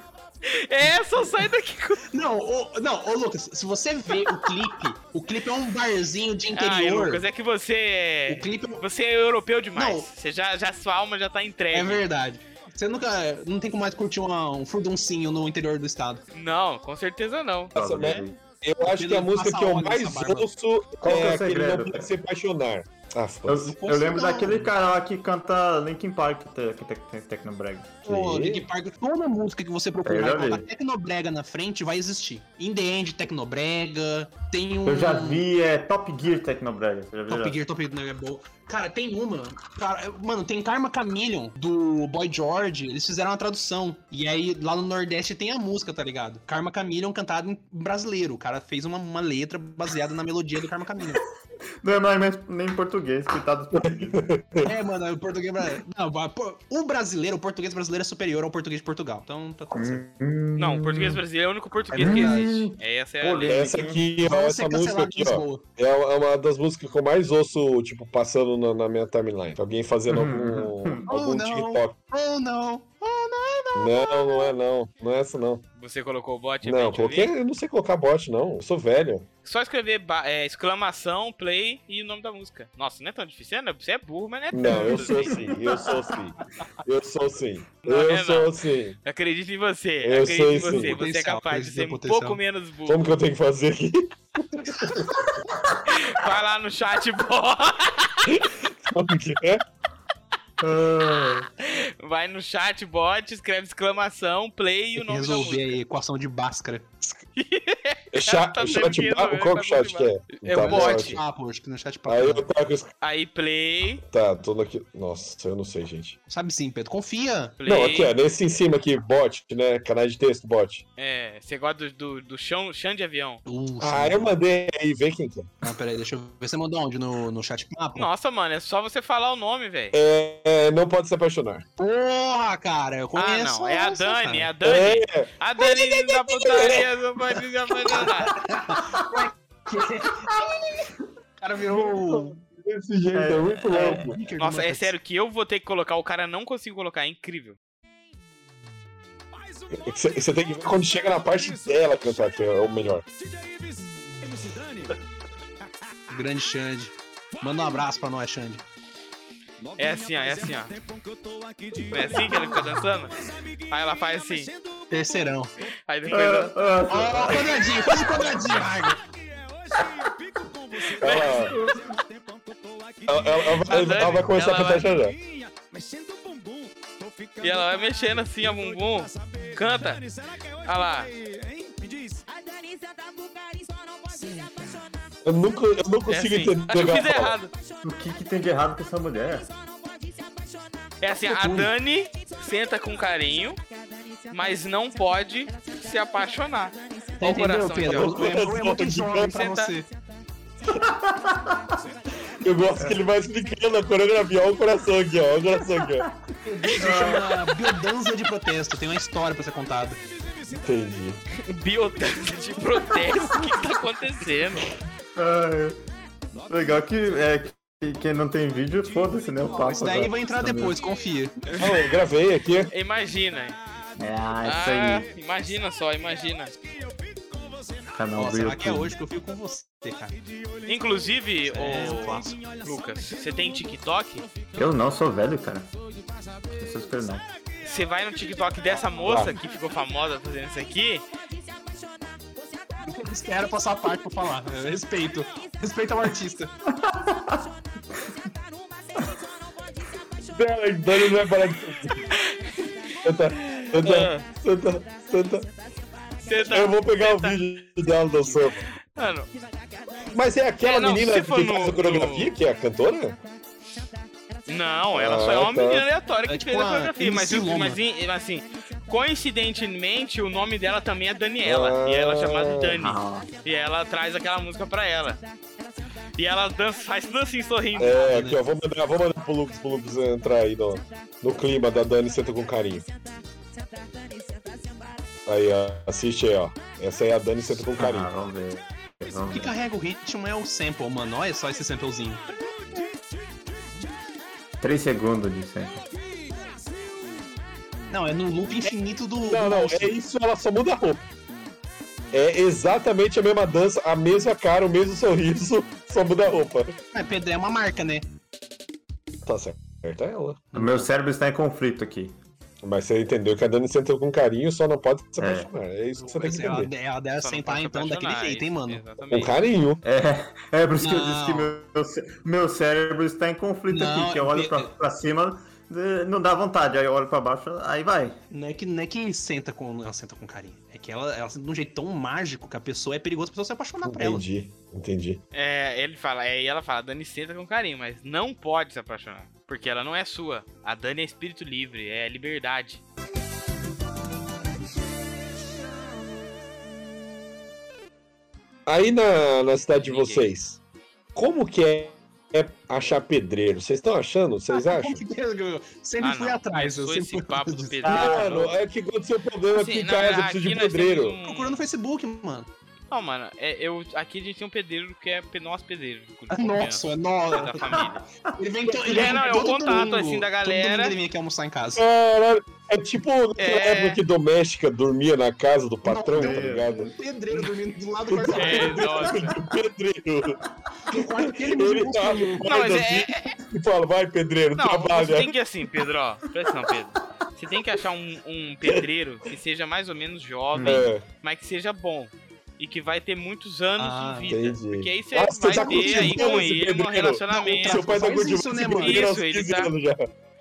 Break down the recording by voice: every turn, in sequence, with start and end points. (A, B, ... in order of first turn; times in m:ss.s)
0:00.4-0:02.1 A
0:02.1-0:07.2 B
0:06.5-0:12.0 A
0:08.3-0:08.8 B
0:09.8-0:10.1 B
0:11.7-0:16.2 B
0:16.3-0:17.8 A
0:17.8-0:18.4 C
0:17.8-0:23.7 D
0:18.8-0:20.5 B
0:21.0-0:22.1 C
0:23.5-0:28.0 C
0:23.6-0:24.7 B
0:28.0-0:35.4 B
0:28.0-0:28.7 D
0:30.0-0:30.7 C
0:34.9-0:37.6 C
0:37.3-0:51.2 B
0:51.8-0:54.3 C
0:53.8-0:54.7 D
0:54.6-1:00.0 B
0:59.7-1:01.2 C
1:00.6-1:03.7 A
1:01.9-1:02.7 B
1:02.0-1:04.1 C
1:03.5-1:12.0 D
1:04.2-1:05.6 B
1:10.1-1:11.0 C
1:11.1-1:14.5 B
1:13.8-1:15.6 D
1:15.8-1:17.3 A
1:16.6-1:19.3 D
1:19.4-1:25.4 A
1:24.5-1:29.0 D
1:24.7-1:25.2 B
1:27.8-1:33.1 A
1:30.0-1:31.0 D
1:30.6-1:32.4 B
1:32.9-1:34.9 D
1:34.6-1:35.1 B
1:35.9-1:38.3 A
1:38.3-1:39.6 D
1:40.6-1:41.5 C
1:41.6-1:45.8 A
1:45.0-1:47.2 B
1:47.4-1:51.2 A
1:48.1-1:51.2 D
1:50.6-1:52.5 B
1:52.1-1:52.9 D
1:53.0-1:54.0 A
1:54.0-1:56.2 D
1:56.3-1:57.6 B
1:57.6-1:58.1 A
1:57.7-2:00.8 D
2:01.0-2:03.4 A
2:03.5-2:04.4 B
2:03.8-2:05.5 D
2:05.6-2:08.1 B
2:08.0-2:10.0 A
2:09.9-2:11.6 D
2:11.8-2:14.5 B
2:13.2-2:18.4 A
2:14.6-2:16.9 D
2:18.0-2:20.9 B
2:21.4-2:22.4 B
2:21.7-2:24.2 D
2:23.1-2:24.1 C
2:23.7-2:25.0 B
2:24.4-2:27.6 A
2:29.7-2:33.1 D
2:36.1-2:38.6 B
2:39.8-2:40.8 A
2:41.8-2:44.5 A
2:44.9-2:45.5 B
2:45.9-2:46.7 A
2:46.1-2:48.0 C
2:46.9-2:49.0 B
2:48.1-2:48.7 A
2:50.8-2:51.8 A
2:51.0-2:51.6 D
2:51.4-2:51.9 C
2:53.0-2:55.2 D
2:53.4-2:54.9 A
2:57.4-3:01.1 A
3:05.2-3:07.4 D
3:06.1-3:07.5 A
3:07.8-3:09.5 C
3:11.0-3:13.6 A
3:11.3-3:11.7 B
3:14.3-3:18.4 A
3:17.2-3:19.9 B
3:17.9-3:19.4 D
3:19.2-3:19.7 A
3:20.7-3:21.8 C
3:22.2-3:26.1 D
3:26.4-3:30.0 B
3:26.8-3:27.6 C
3:30.5-3:31.2 D
3:31.3-3:34.7 A
3:35.2-3:35.8 C
3:36.5-3:40.8 C
3:39.5-3:41.3 B
3:41.5-3:42.0 A
3:41.6-3:42.7 D
3:42.7-3:43.6 A
3:44.0-3:45.1 C
3:44.4-3:46.6 A
3:47.9-3:48.9 C
3:48.1-3:50.2 B
3:50.6-3:54.3 A
3:51.5-3:52.5 B
3:54.6-3:55.7 C
3:56.5-3:57.2 C
3:57.6-4:01.1 A
3:59.1-3:59.3 D
3:59.1-3:59.3 C
4:02.8-4:06.5 B
4:06.7-4:07.4 C
4:10.3-4:12.1 D
4:12.1-4:12.5 A
4:13.0-4:15.5 D
4:13.3-4:14.3 A
4:16.2-4:17.4 A
4:16.4-4:18.6 D
4:19.0-4:19.3 A
4:20.0-4:23.2 D
4:20.6-4:22.3 A
4:24.5-4:35.2 A
4:24.9-4:25.9 D
4:26.3-4:27.8 B
4:31.4-4:32.8 D
4:32.8-4:33.3 C
4:36.1-4:38.1 A
4:37.8-4:42.9 D
4:38.0-4:38.4 B
4:45.3-4:48.1 D
4:47.6-4:49.6 C
4:49.3-4:52.4 B
4:54.6-4:55.8 C
4:57.9-4:59.9 B
4:58.6-5:01.0 D
5:02.1-5:06.8 D
5:06.9-5:08.1 B
5:09.2-5:10.6 D
5:10.5-5:10.8 B
5:10.5-5:12.2 C
5:12.6-5:16.7 D
5:15.2-5:15.5 C
5:16.0-5:18.8 B
5:17.2-5:19.5 A
5:19.1-5:19.8 D
5:19.8-5:28.2 C
5:20.8-5:21.5 B
5:23.7-5:24.7 B
5:28.3-5:34.2 B
5:33.8-5:35.2 D
5:35.3-5:42.8 A
5:48.7-5:50.6 D
5:49.8-5:50.3 A
5:51.1-5:55.0 D
5:54.5-5:57.9 B
5:56.0-5:58.6 A
5:57.8-5:58.5 C
5:57.8-6:01.2 D
5:59.5-6:01.6 A
6:01.2-6:02.5 B
6:02.9-6:08.0 A
6:06.3-6:07.8 B
6:07.6-6:08.0 C
6:08.4-6:11.8 B
6:08.7-6:11.0 A
6:11.8-6:16.9 D
6:13.4-6:14.0 A
6:15.8-6:19.2 B
6:16.1-6:16.9 C
6:18.1-6:20.4 D
6:18.3-6:19.4 A
6:20.9-6:22.7 B
6:20.9-6:25.4 D
6:22.4-6:23.4 A
6:24.6-6:37.9 A
6:30.5-6:30.8 C
6:30.6-6:31.1 D
6:33.8-6:34.4 B
6:34.3-6:40.1 D
6:35.5-6:36.4 B
6:37.3-6:39.1 B
6:38.6-6:39.7 A